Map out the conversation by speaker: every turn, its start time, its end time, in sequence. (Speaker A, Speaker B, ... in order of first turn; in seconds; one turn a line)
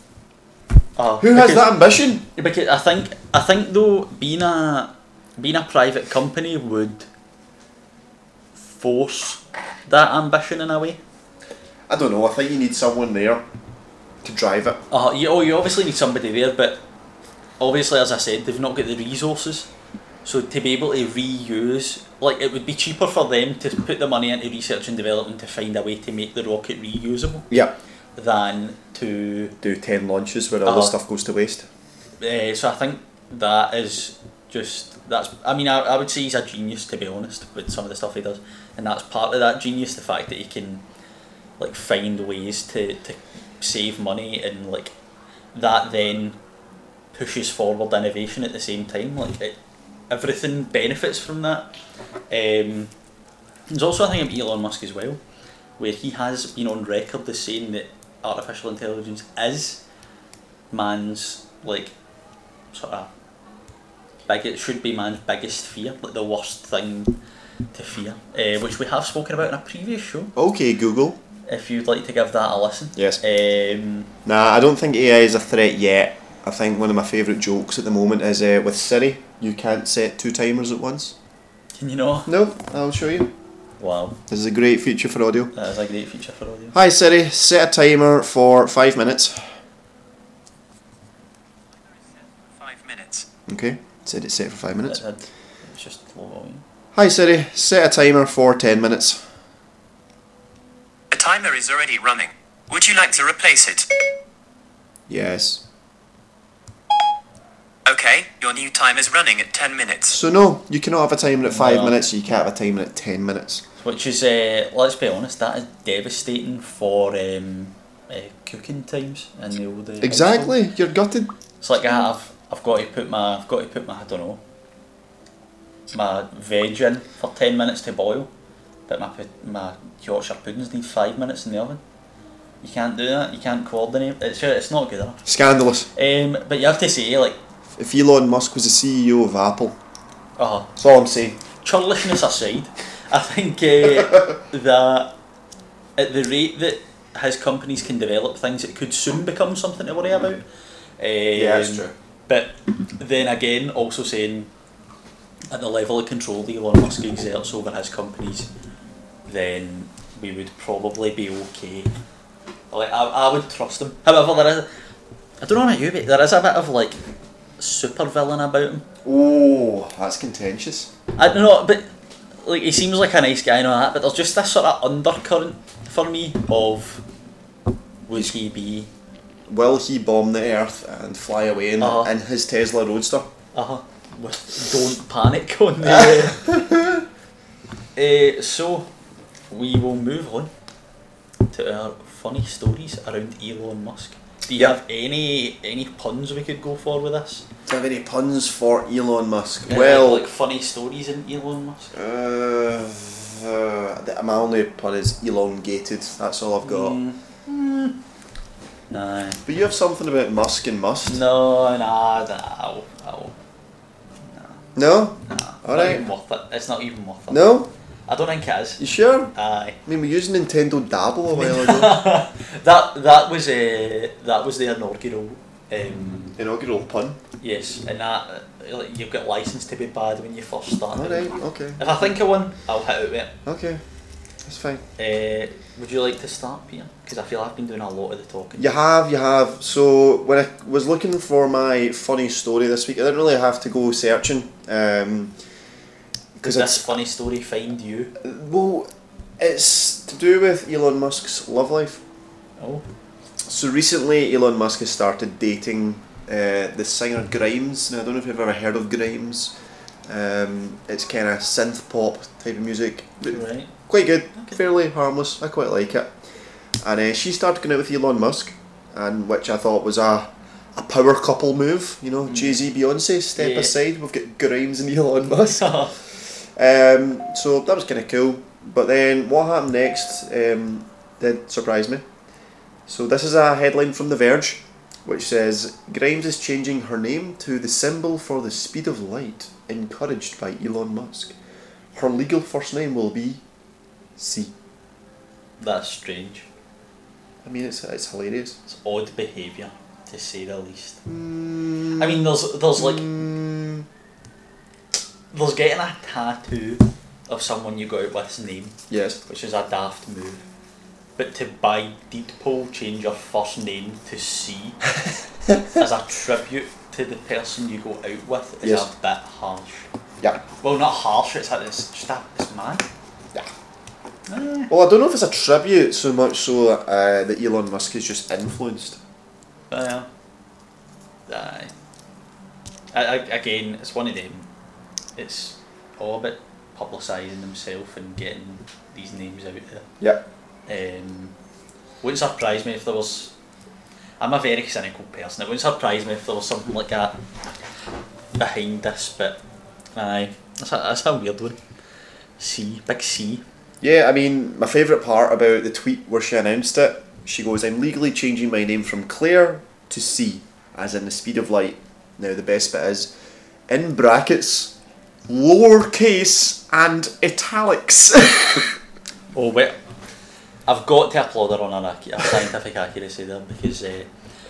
Speaker A: 1.0-1.7
Speaker B: 1.2-2.2
Speaker A: 2.3-7.1
Speaker A: 8.6-11.0
Speaker B: 11.9-13.4
Speaker B: 14.2-14.8
Speaker A: 14.9-16.8
Speaker A: 17.6-19.7
Speaker A: 20.2-27.6
Speaker A: 28.2-29.6
Speaker B: 29.6-31.7
Speaker A: 30.6-30.9
Speaker A: 32.2-40.8
Speaker A: 41.6-44.9
Speaker A: 45.5-46.4
Speaker A: 47.1-49.6
Speaker A: 50.1-51.7
Speaker A: 52.3-52.9
Speaker A: 53.7-55.2
Speaker A: 55.8-59.8
Speaker A: 60.7-62.0
Speaker A: 62.7-63.1
Speaker A: 64.3-67.2
Speaker A: 67.7-70.3
Speaker B: 70.4-71.2
Speaker A: 71.5-74.1
Speaker B: 74.2-81.2
Speaker A: 81.8-82.3
Speaker B: 82.3-83.3
Speaker A: 83.8-84.2
Speaker B: 84.3-85.5
Speaker A: 85.5-86.8
Speaker B: 86.7-89.5
Speaker C: 92.5-93.3
Speaker B: 93.5-95.0
Speaker A: 94.9-96.6
Speaker B: 96.9-99.2
Speaker C: 101.1-103.9
Speaker B: 105.1-105.6
Speaker C: 107.9-110.2
Speaker B: 110.1-113.6
Speaker A: 111.5-112.0
Speaker A: 113.8-120.6
Speaker B: 120.0-121.3
Speaker A: 121.6-124.4
Speaker A: 125.9-128.3
Speaker A: 128.9-131.8
Speaker A: 132.6-135.3
Speaker B: 135.3-135.9
Speaker A: 135.9-137.4
Speaker B: 137.8-139.8
Speaker A: 140.4-140.7
Speaker B: 140.8-141.4
Speaker A: 141.6-145.1
Speaker A: 146.0-150.4
Speaker A: 151.0-154.5
Speaker B: 151.3-151.9
Speaker A: 155.5-158.5
Speaker A: 159.3-161.9
Speaker A: 162.7-164.7
Speaker A: 165.4-167.0
Speaker A: 167.6-168.9
Speaker B: 169.0-170.9
Speaker A: 171.2-171.9
Speaker A: 172.4-177.0
Speaker A: 178.1-178.9
Speaker B: 179.5-183.3
Speaker A: 181.8-182.1
Speaker A: 183.5-186.6
Speaker B: 186.1-186.7
Speaker A: 188.0-188.9
Speaker A: 189.5-190.5
Speaker A: 191.5-197.4
Speaker B: 197.7-200.3
Speaker A: 199.7-201.9
Speaker B: 201.9-207.0
Speaker A: 206.6-208.0
Speaker A: 208.9-209.4
Speaker B: 209.4-211.2
Speaker A: 211.1-213.4
Speaker A: 214.2-214.6
Speaker B: 214.8-216.1
Speaker A: 215.2-218.8
Speaker B: 217.3-217.7
Speaker B: 218.8-219.3
Speaker A: 219.3-219.8
Speaker B: 219.9-222.0
Speaker A: 221.3-226.4
Speaker B: 226.4-227.2
Speaker A: 227.4-233.3
Speaker B: 230.9-232.1
Speaker B: 233.4-233.8
Speaker B: 234.4-234.8
Speaker A: 235.0-238.7
Speaker B: 238.6-245.3
Speaker B: 246.4-246.9
Speaker A: 246.4-248.1
Speaker B: 248.2-252.0
Speaker A: 252.6-252.8
Speaker B: 253.4-259.5
Speaker B: 260.1-266.2
Speaker A: 263.3-263.7
Speaker B: 266.8-282.1
Speaker A: 272.3-272.6
Speaker A: 273.4-273.7
Speaker A: 275.4-276.0
Speaker B: 282.9-291.4
Speaker B: 291.9-293.4
Speaker B: 294.2-294.5
Speaker A: 295.6-296.5
Speaker B: 297.4-298.6
Speaker A: 298.7-301.0
Speaker B: 301.1-303.9
Speaker A: 302.0-303.2
Speaker A: 305.3-310.4
Speaker B: 308.9-309.2
Speaker A: 311.2-314.8
Speaker A: 315.7-319.9
Speaker B: 318.6-318.9
Speaker A: 320.6-322.9
Speaker A: 324.3-324.7
Speaker B: 324.7-329.0
Speaker A: 329.7-330.1
Speaker A: 331.3-331.7
Speaker A: 332.9-334.5
Speaker A: 335.2-339.9
Speaker A: 340.7-341.3
Speaker A: 342.0-343.3
Speaker A: 344.2-347.2
Speaker A: 348.4-349.4
Speaker A: 349.9-351.6
Speaker A: 352.4-353.4
Speaker B: 353.8-363.1
Speaker B: 363.7-364.7
Speaker B: 365.3-368.8
Speaker A: 369.3-369.8
Speaker A: 370.7-374.1